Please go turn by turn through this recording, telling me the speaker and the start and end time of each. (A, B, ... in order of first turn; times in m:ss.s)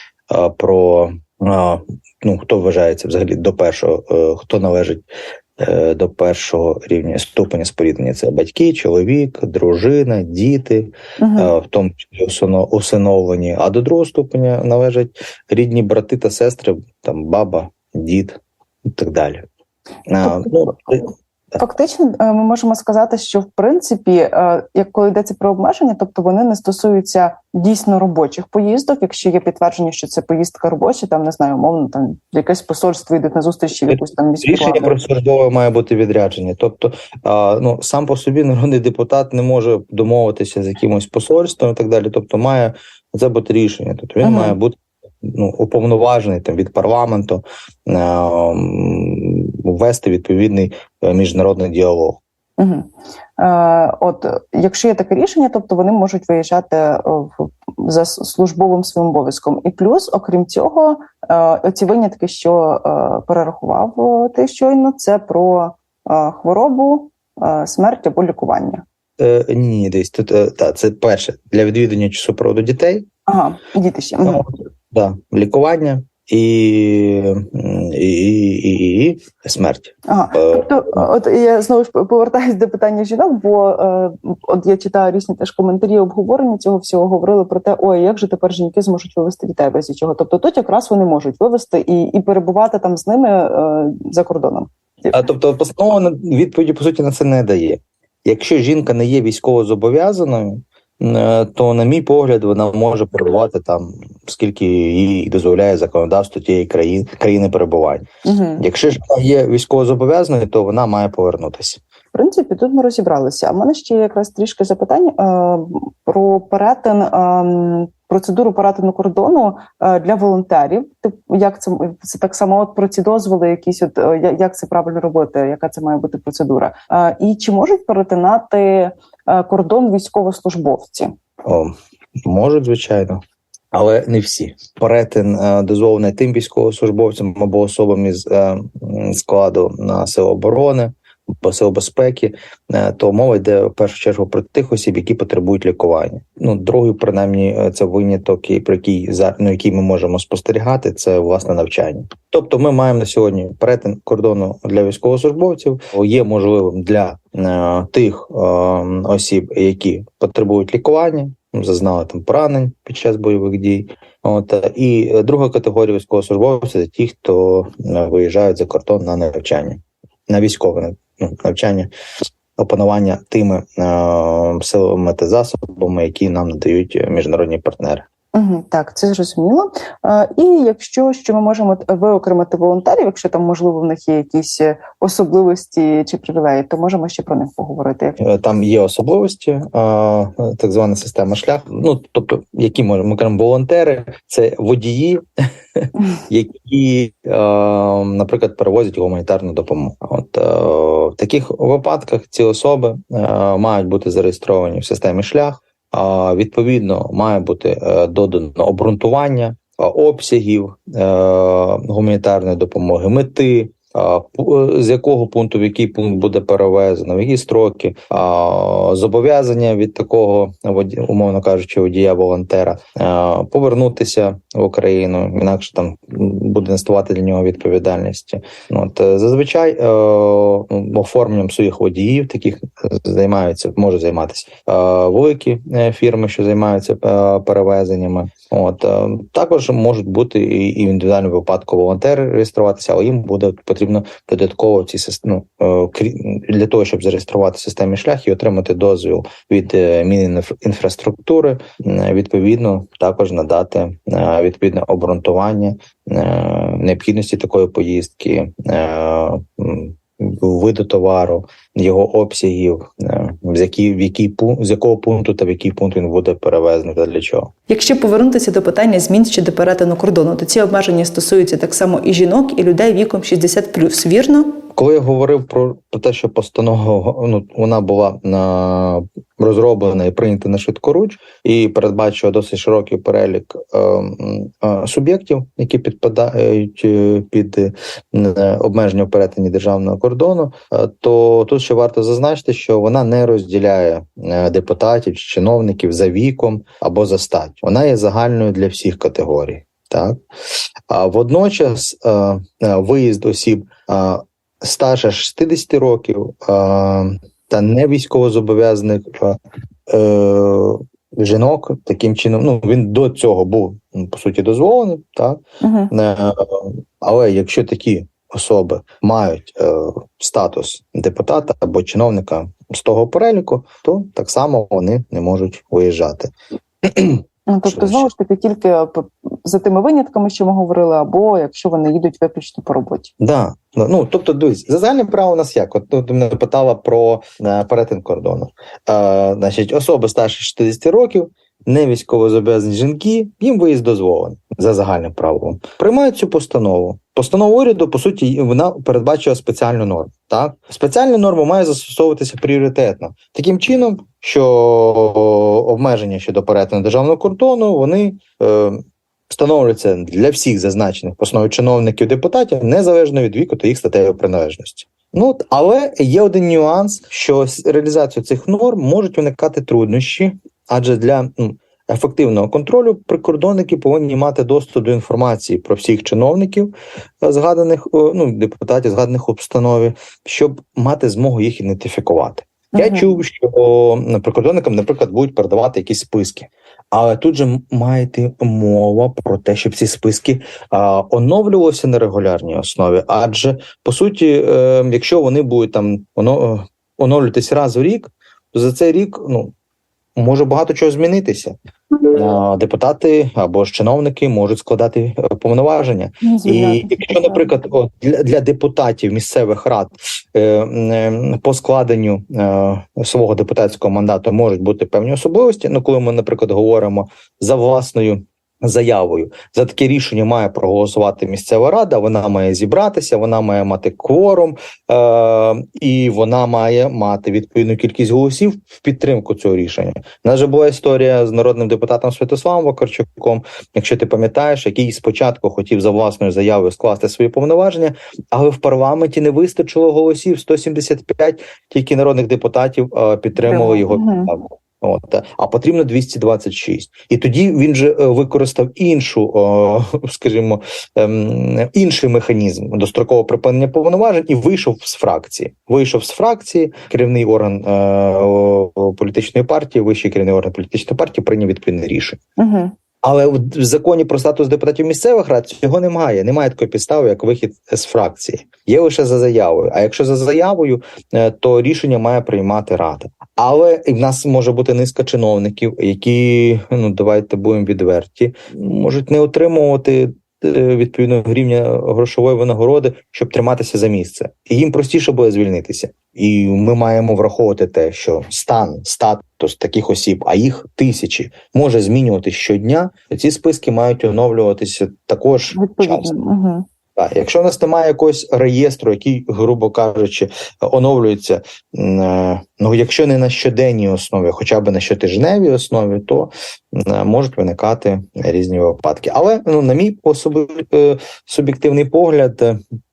0:00.3-0:05.0 A
0:05.6-0:19.4 A
0:11.2-0:11.5 B
0:20.1-0:21.1 A
0:20.2-0:20.7 B
0:21.6-0:35.0 B
0:33.9-0:52.2 A
0:44.2-0:44.6 B
0:52.6-1:08.8 B
1:09.2-1:13.1 A
1:13.3-1:14.4 B
1:14.2-1:21.0 A
1:20.1-1:35.2 B
1:35.1-1:51.8 A
1:48.2-1:48.6 B
1:52.1-2:11.1 B
2:11.4-2:11.7 A
2:12.2-2:13.2 A
2:13.7-2:51.9 A
2:52.6-2:58.1 A
2:58.3-3:08.2 B
3:08.2-3:15.2 A
3:15.8-4:27.5 A
4:27.7-4:34.6 C
4:34.8-5:00.2 A
5:00.9-5:26.3 A
5:15.6-5:15.9 B
5:26.8-5:28.1 A
5:27.5-5:33.1 B
5:33.2-6:39.5 A
6:22.8-6:23.2 B
6:40.2-6:41.6 A
6:42.1-7:42.2 A
6:46.2-6:47.5 B
7:23.5-7:24.3 B
7:42.4-7:42.7 B
7:43.0-8:16.1 A
8:15.5-8:16.6 B
8:17.0-8:32.6 A